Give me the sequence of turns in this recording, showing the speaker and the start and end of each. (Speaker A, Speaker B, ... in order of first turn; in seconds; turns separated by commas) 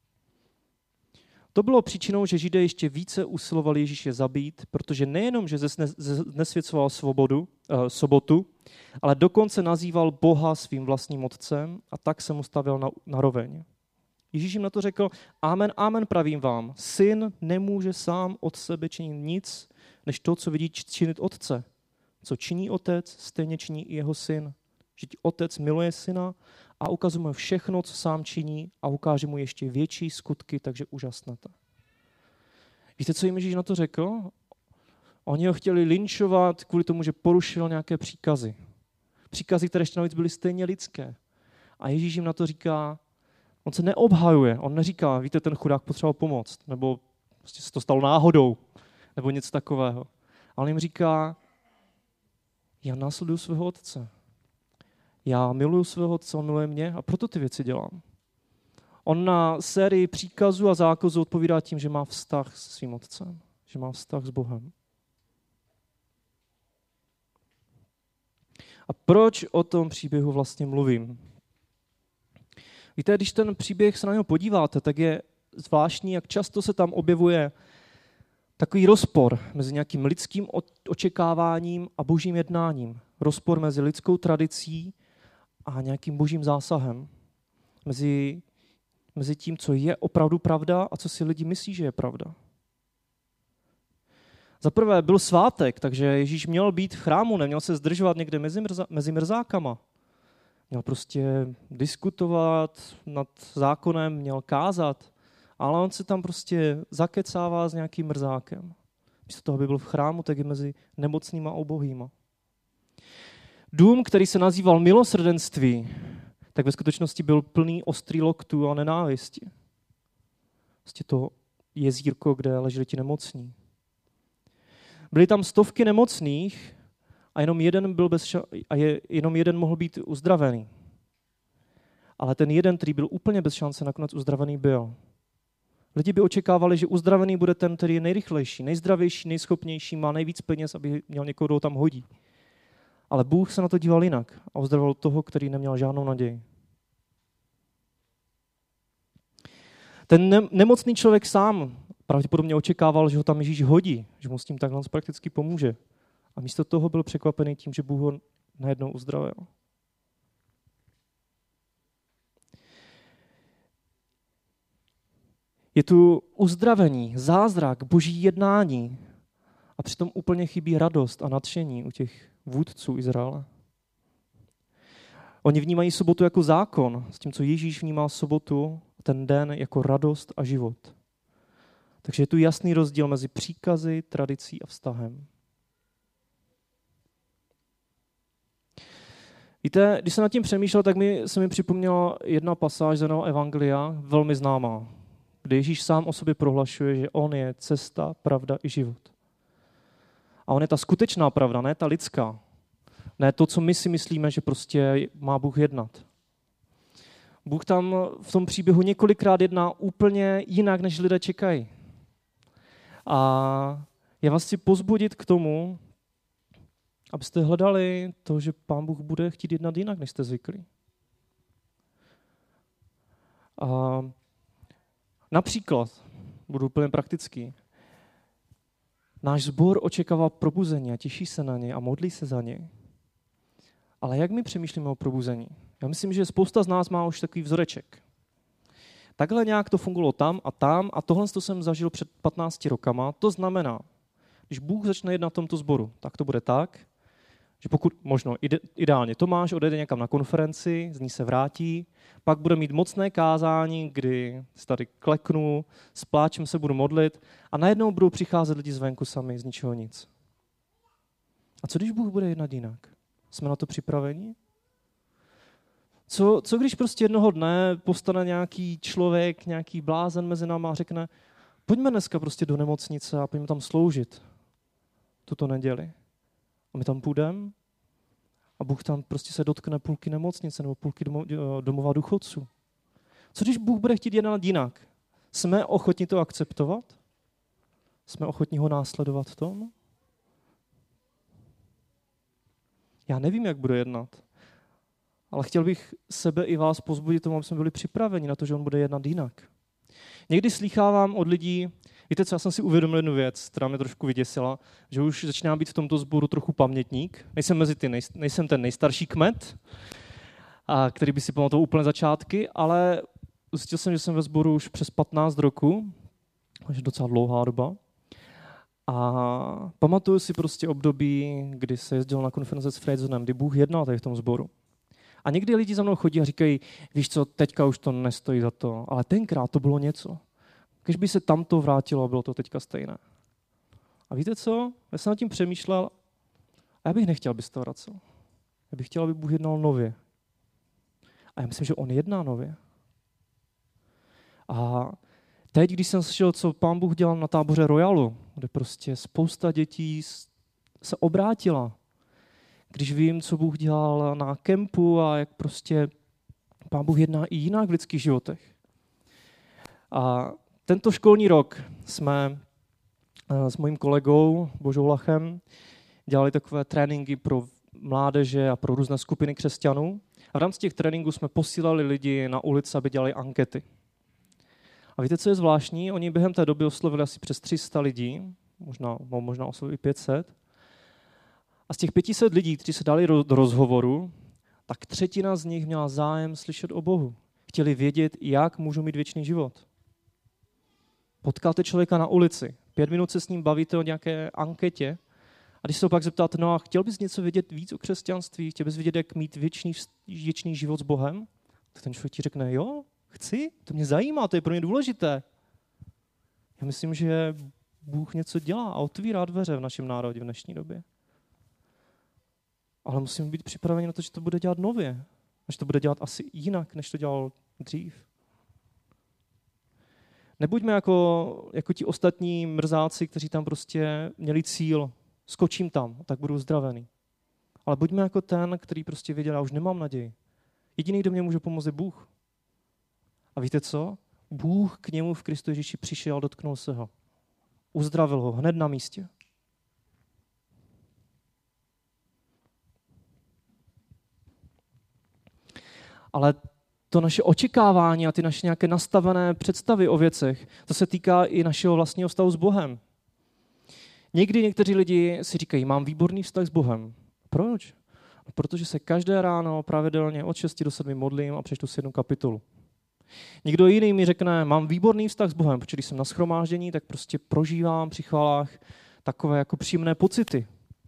Speaker A: 1.5-8.5, Speaker A: 9.0-13.7, Speaker A: 14.3-21.7, Speaker A: 22.2-31.5, Speaker A: 33.0-34.3, Speaker A: 35.3-38.6, Speaker A: 39.3-41.2, Speaker A: 41.8-43.0, Speaker A: 43.6-48.6, Speaker A: 49.2-51.4, Speaker A: 52.8-54.1, Speaker A: 55.2-58.0, Speaker A: 59.1-64.7, Speaker A: 68.9-71.2, Speaker A: 73.0-77.5, Speaker A: 78.6-85.0, Speaker A: 85.7-87.1, Speaker A: 87.8-88.4, Speaker A: 89.1-92.3, Speaker A: 94.6-99.8, Speaker A: 100.7-112.1, Speaker A: 113.7-119.5, Speaker A: 120.8-123.5, Speaker A: 125.1-126.8, Speaker A: 127.3-130.7, Speaker A: 132.2-134.9, Speaker A: 135.9-142.1, Speaker A: 143.1-146.4, Speaker A: 150.1-155.8, Speaker A: 156.3-159.5, Speaker A: 165.7-169.0, Speaker A: 169.8-173.5, Speaker A: 175.4-180.9, Speaker A: 182.0-185.3, Speaker A: 189.6-194.9, Speaker A: 195.4-199.1, Speaker A: 200.5-202.4, Speaker A: 203.2-206.1, Speaker A: 207.4-211.7, Speaker A: 213.1-215.8, Speaker A: 217.1-220.7, Speaker A: 223.6-224.1, Speaker A: 225.3-227.6, Speaker A: 229.2-232.7, Speaker A: 234.0-238.0, Speaker A: 239.2-243.8, Speaker A: 244.5-246.9, Speaker A: 247.6-260.1, Speaker A: 261.6-264.4, Speaker A: 266.1-271.1, Speaker A: 271.7-274.2, Speaker A: 275.3-275.9, Speaker A: 276.7-277.6, Speaker A: 278.6-282.5, Speaker A: 283.3-286.9, Speaker A: 288.1-289.7, Speaker A: 293.1-294.2, Speaker A: 295.3-299.5, Speaker A: 300.3-309.6, Speaker A: 310.7-315.9, Speaker A: 316.7-317.8, Speaker A: 318.9-324.5, Speaker A: 325.2-330.2, Speaker A: 330.8-333.0, Speaker A: 334.1-335.9, Speaker A: 336.8-338.0, Speaker A: 338.7-340.0, Speaker A: 341.4-342.6, Speaker A: 344.5-345.0, Speaker A: 345.5-350.3, Speaker A: 350.8-351.8, Speaker A: 352.7-355.9, Speaker A: 356.7-358.5, Speaker A: 359.9-362.4, Speaker A: 363.3-365.4, Speaker A: 366.1-373.6, Speaker A: 375.0-380.3, Speaker A: 381.7-384.1, Speaker A: 384.7-389.6, Speaker A: 391.2-395.0, Speaker A: 395.6-405.2, Speaker A: 406.6-410.9, Speaker A: 412.9-418.1, Speaker A: 420.4-426.9, Speaker A: 427.7-430.1, Speaker A: 430.8-432.1, Speaker A: 433.4-436.9, Speaker A: 437.7-439.1, Speaker A: 446.9-452.8, Speaker A: 454.1-462.4, Speaker A: 463.4-470.5